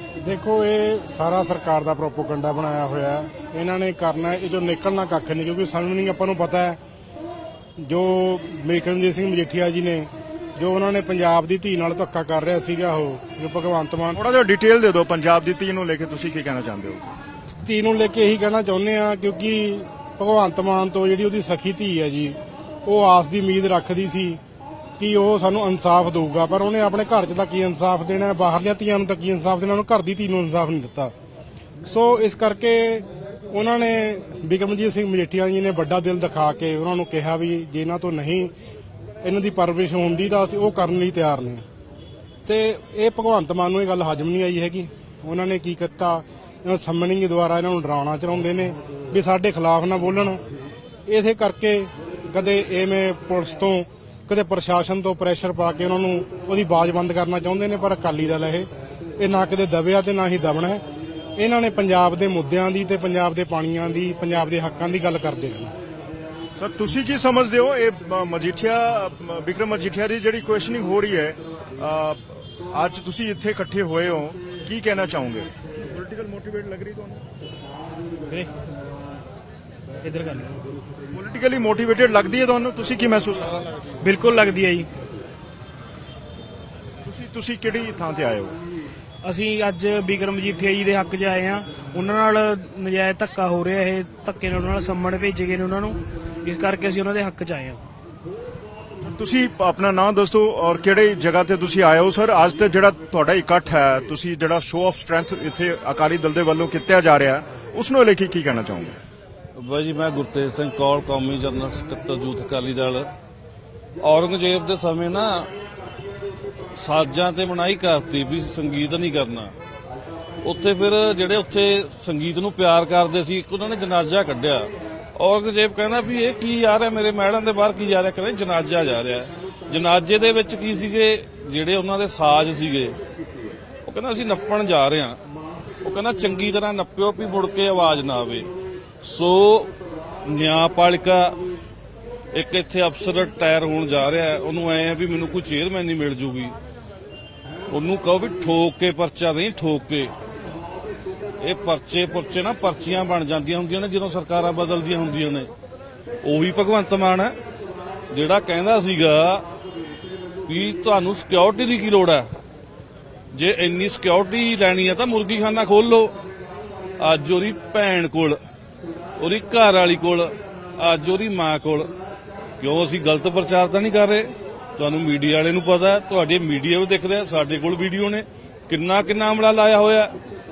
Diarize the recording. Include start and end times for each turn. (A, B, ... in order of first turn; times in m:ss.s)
0:00.2-0:06.8 A
0:07.8-0:14.2 A
0:14.1-0:17.0 B
0:17.6-0:24.4 A
0:25.0-0:31.1 A
0:31.8-0:38.5 A
0:39.2-0:41.6 A
0:42.4-0:50.4 A
0:51.1-0:58.7 A
0:59.2-1:00.8 A
1:01.4-1:05.7 A
1:06.6-1:17.2 B
1:20.0-1:20.6 C
1:21.1-1:23.6 B
1:24.0-1:24.9 C
1:27.1-1:28.6 B
1:29.2-1:37.8 C
1:39.1-1:49.0 B
1:49.6-1:53.1 D
1:54.0-1:55.5 D
1:56.8-1:59.5 D
2:00.4-2:13.0 D
2:13.8-2:15.2 D
2:15.8-2:18.5 D
2:19.0-2:19.7 D
2:20.3-2:21.4 D
2:22.3-2:26.5 D
2:27.7-2:30.1 D
2:31.4-2:35.5 D
2:36.2-2:37.4 D
2:38.1-2:39.4 D
2:40.5-2:42.2 D
2:43.3-2:46.1 D
2:47.0-2:48.4 D
2:49.2-2:51.9 D
2:52.6-3:00.1 D